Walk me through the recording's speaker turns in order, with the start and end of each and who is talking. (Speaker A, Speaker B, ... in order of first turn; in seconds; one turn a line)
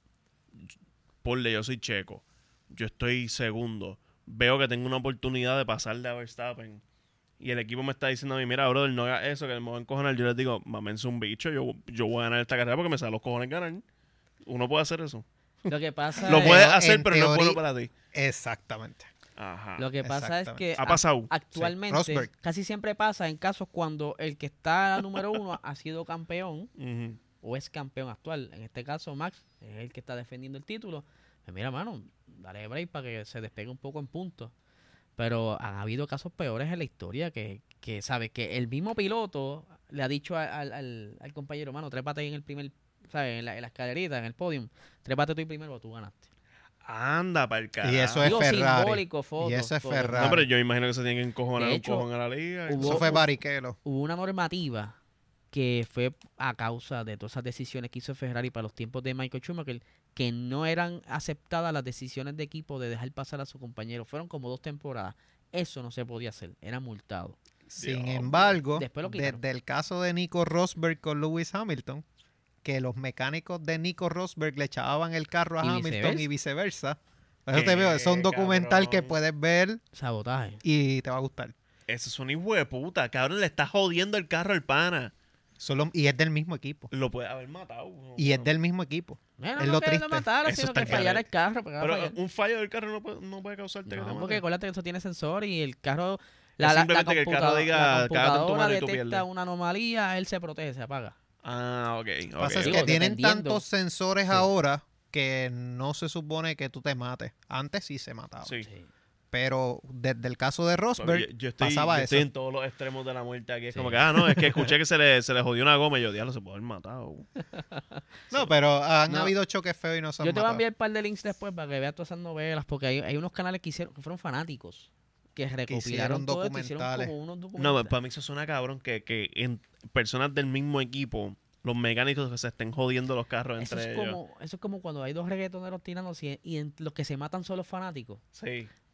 Speaker A: 1.2-6.8
Speaker A: 7.4-13.8
Speaker A: 14.4-15.2
Speaker B: 15.7-16.7
Speaker A: 16.2-17.9
Speaker C: 16.2-17.6
Speaker C: 18.1-19.1
Speaker A: 19.4-19.9
Speaker B: 19.8-26.7
Speaker C: 20.0-20.6
Speaker A: 20.8-21.3
Speaker C: 21.5-22.3
Speaker A: 26.8-27.2
Speaker B: 27.4-34.5
Speaker B: 35.2-46.3
Speaker A: 46.8-48.4
Speaker C: 47.8-50.4
Speaker B: 48.2-50.4
Speaker A: 50.1-53.2
Speaker B: 51.6-52.1
Speaker B: 52.7-53.2
Speaker C: 52.8-53.8
Speaker B: 53.8-55.0
Speaker B: 55.5-67.4
Speaker A: 67.7-68.6
Speaker C: 67.8-72.0
Speaker B: 68.7-69.4
Speaker C: 72.6-79.8
Speaker B: 75.6-76.3
Speaker A: 77.5-79.1
Speaker B: 79.9-80.6
Speaker C: 80.6-81.5
Speaker A: 81.9-85.1
Speaker C: 85.6-86.9
Speaker A: 86.9-88.5
Speaker C: 88.2-90.3
Speaker B: 89.4-92.2
Speaker A: 90.5-91.2
Speaker C: 90.8-91.1
Speaker A: 91.8-94.4
Speaker B: 93.9-101.2
Speaker A: 96.6-99.2
Speaker A: 101.4-102.9
Speaker C: 102.4-108.5
Speaker B: 102.6-103.6
Speaker A: 108.4-108.7
Speaker B: 108.6-108.9
Speaker C: 109.3-112.3
Speaker A: 111.0-117.3
Speaker B: 113.7-114.4
Speaker B: 117.5-118.5
Speaker C: 118.3-120.6
Speaker B: 120.2-127.9
Speaker C: 125.7-127.1
Speaker A: 127.6-134.2
Speaker B: 133.6-138.2
Speaker A: 138.3-138.7